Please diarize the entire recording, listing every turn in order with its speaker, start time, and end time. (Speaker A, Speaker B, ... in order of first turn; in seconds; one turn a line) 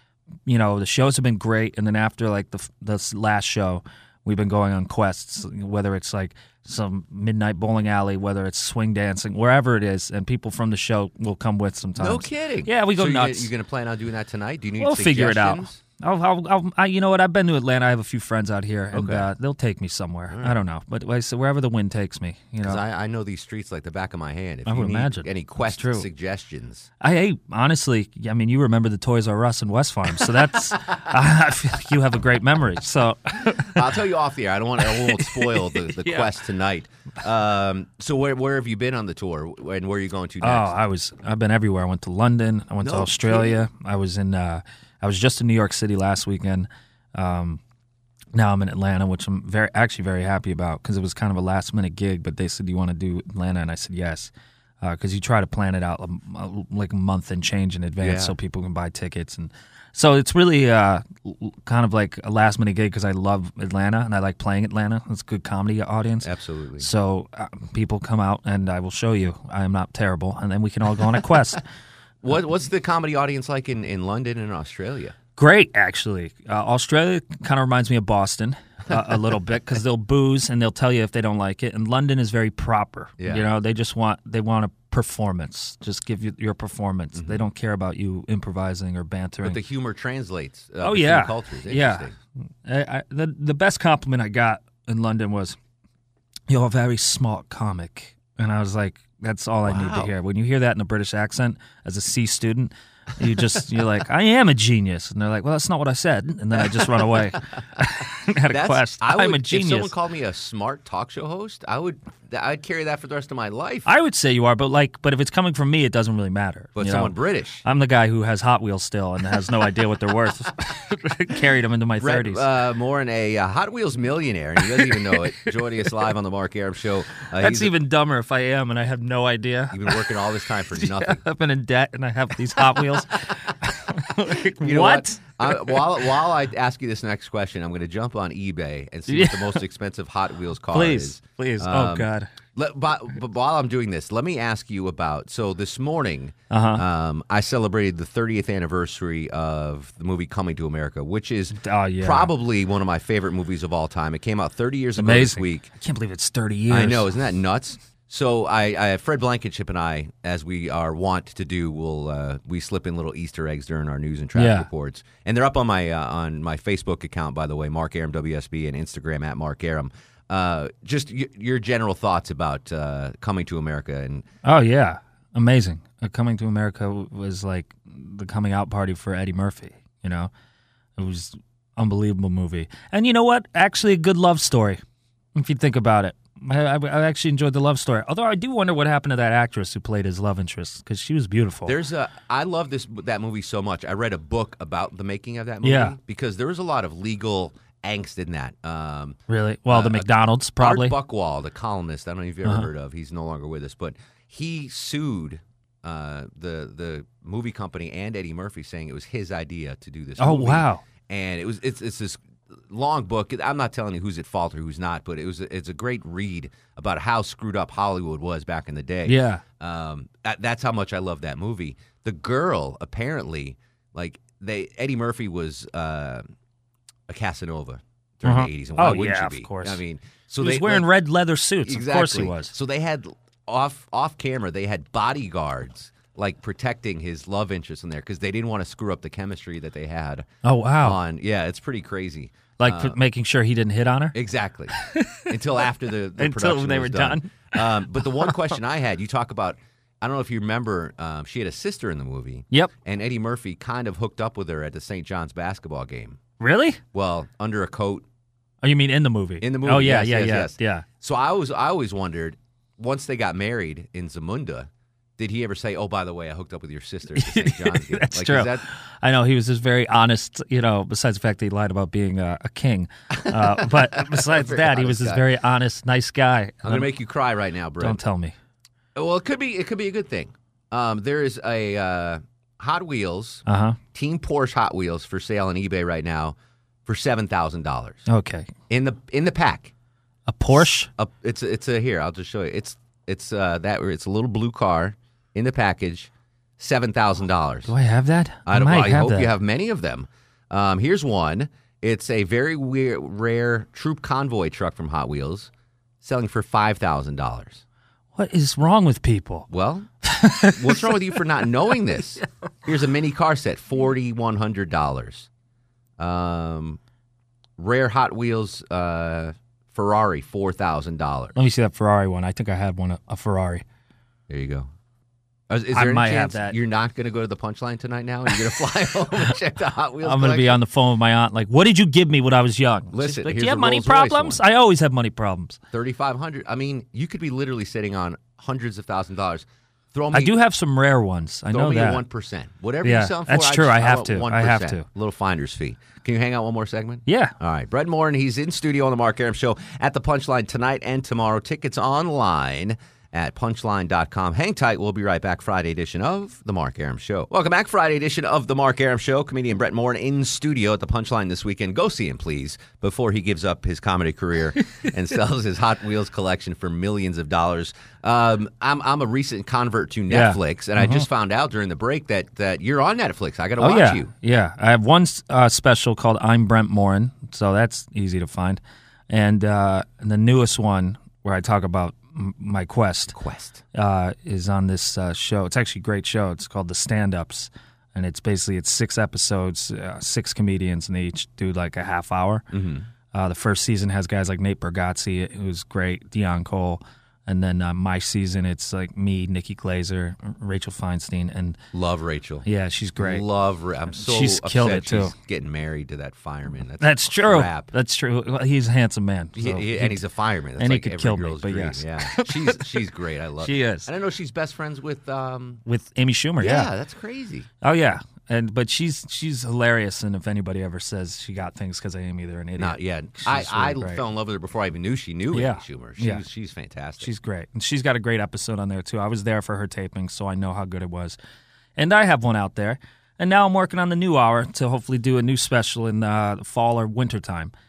Speaker A: 0.5-13.5
Speaker B: 12.0-15.8
Speaker A: 14.8-22.8
Speaker B: 18.9-19.3
Speaker B: 20.3-20.6
Speaker B: 22.6-26.9
Speaker A: 24.7-26.1
Speaker A: 27.0-33.9
Speaker B: 33.8-40.7
Speaker A: 34.9-36.3
Speaker A: 40.4-47.6
Speaker B: 42.8-43.6
Speaker A: 48.3-71.6
Speaker B: 58.0-58.4
Speaker B: 66.2-66.9
Speaker B: 72.2-75.1
Speaker A: 75.4-89.6
Speaker B: 83.2-83.5
Speaker B: 87.2-87.4
Speaker B: 89.4-92.2
Speaker A: 90.8-92.1
Speaker A: 92.7-95.6
Speaker A: 96.5-109.9
Speaker B: 99.7-100.1
Speaker B: 108.5-113.9
Speaker A: 113.9-122.5
Speaker B: 116.8-117.6
Speaker B: 122.0-127.7
Speaker A: 124.6-125.9
Speaker A: 127.4-136.0
Speaker B: 129.7-131.2
Speaker B: 134.6-155.7
Speaker A: 139.1-139.6
Speaker A: 140.7-142.3
Speaker A: 146.5-146.8
Speaker A: 151.5-152.3
Speaker A: 155.0-157.1
Speaker B: 156.7-174.2
Speaker A: 164.3-164.7
Speaker A: 174.4-180.3
Speaker A: 181.0-184.8
Speaker A: 185.4-191.8
Speaker B: 191.7-199.2
Speaker A: 195.6-196.0
Speaker A: 199.3-200.9
Speaker B: 199.7-226.2
Speaker A: 210.2-210.8
Speaker A: 219.1-219.4
Speaker B: 227.1-230.9
Speaker A: 228.2-229.8
Speaker A: 230.4-232.5
Speaker B: 231.6-240.2
Speaker A: 240.4-241.0
Speaker B: 240.8-243.0
Speaker A: 242.6-244.2
Speaker B: 244.2-244.7
Speaker A: 244.7-245.3
Speaker B: 245.3-256.2
Speaker A: 246.2-248.6
Speaker A: 256.4-256.8
Speaker B: 256.9-258.1
Speaker A: 258.6-260.9
Speaker B: 259.4-268.7
Speaker A: 267.1-277.0
Speaker B: 273.2-275.3
Speaker B: 276.6-278.0
Speaker A: 277.8-278.4
Speaker B: 279.0-283.4
Speaker A: 283.5-283.8
Speaker B: 283.9-286.4
Speaker B: 286.9-288.1
Speaker A: 288.1-288.5
Speaker B: 288.7-289.7
Speaker A: 290.3-290.9
Speaker B: 290.5-297.7
Speaker A: 297.7-299.3
Speaker B: 298.5-305.5
Speaker B: 306.0-307.6
Speaker A: 308.1-309.5
Speaker B: 309.5-309.9
Speaker A: 310.1-311.2
Speaker B: 310.6-315.3
Speaker A: 311.7-312.2
Speaker B: 316.0-316.8
Speaker B: 317.6-321.4
Speaker A: 321.4-323.6
Speaker B: 324.3-324.7
Speaker B: 325.5-330.6
Speaker A: 325.7-326.6
Speaker A: 330.0-335.6
Speaker B: 332.9-334.4
Speaker B: 335.7-340.4
Speaker A: 340.1-342.1
Speaker B: 341.5-374.1
Speaker A: 342.8-344.9
Speaker A: 347.1-347.4
Speaker A: 370.1-371.1
Speaker A: 373.6-383.1
Speaker B: 383.1-383.6
Speaker A: 383.7-392.4
Speaker B: 392.5-392.9
Speaker A: 393.1-401.6
Speaker B: 401.7-402.5
Speaker A: 402.4-403.3
Speaker B: 403.0-407.7
Speaker A: 403.9-405.1
Speaker A: 406.8-410.0
Speaker B: 409.4-415.6
Speaker A: 410.6-412.6
Speaker A: 413.4-413.9
Speaker A: 415.6-416.7
Speaker B: 416.4-417.5
Speaker A: 417.6-424.0
Speaker B: 422.6-427.1
Speaker A: 425.3-426.2
Speaker A: 427.0-431.2
Speaker A: 431.8-437.5